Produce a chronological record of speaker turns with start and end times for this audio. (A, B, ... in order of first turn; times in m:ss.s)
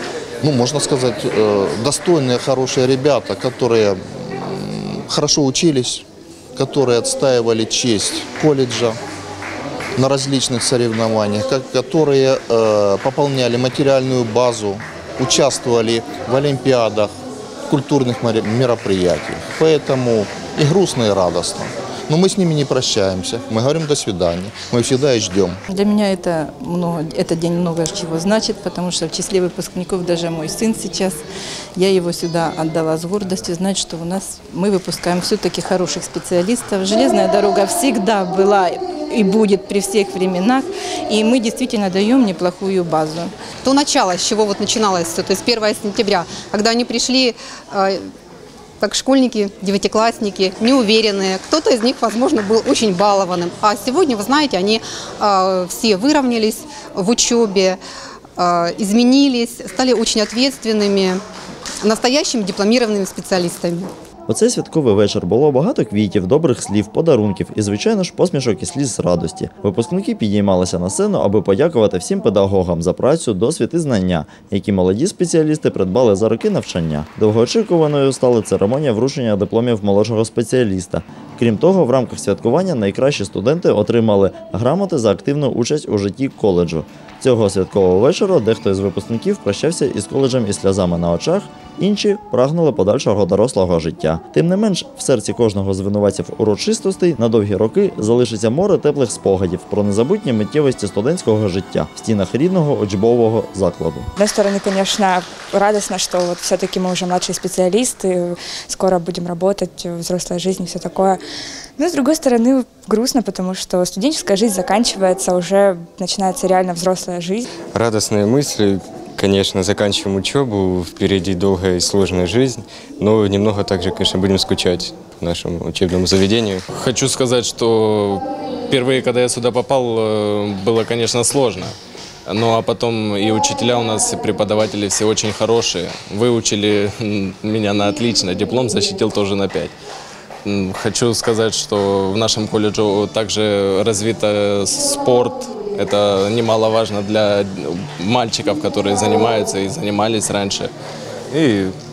0:00.4-0:06.0 A
0:06.6-0:09.0 A
0:10.0-0:17.1 A
0:17.7-0:25.6 A
0:25.7-0:31.2 B
0:31.8-0:43.3 B
0:43.6-0:48.0 C
0:48.8-0:57.8 C
0:58.4-1:01.2 C
1:01.8-1:03.9 C
1:04.3-1:44.1 D
1:44.2-1:51.2 E
1:51.8-1:57.5 E
1:57.7-2:06.6 F
2:06.7-2:11.8 G
2:12.3-2:19.7 G
2:20.4-2:30.7 G
2:31.3-2:31.7 G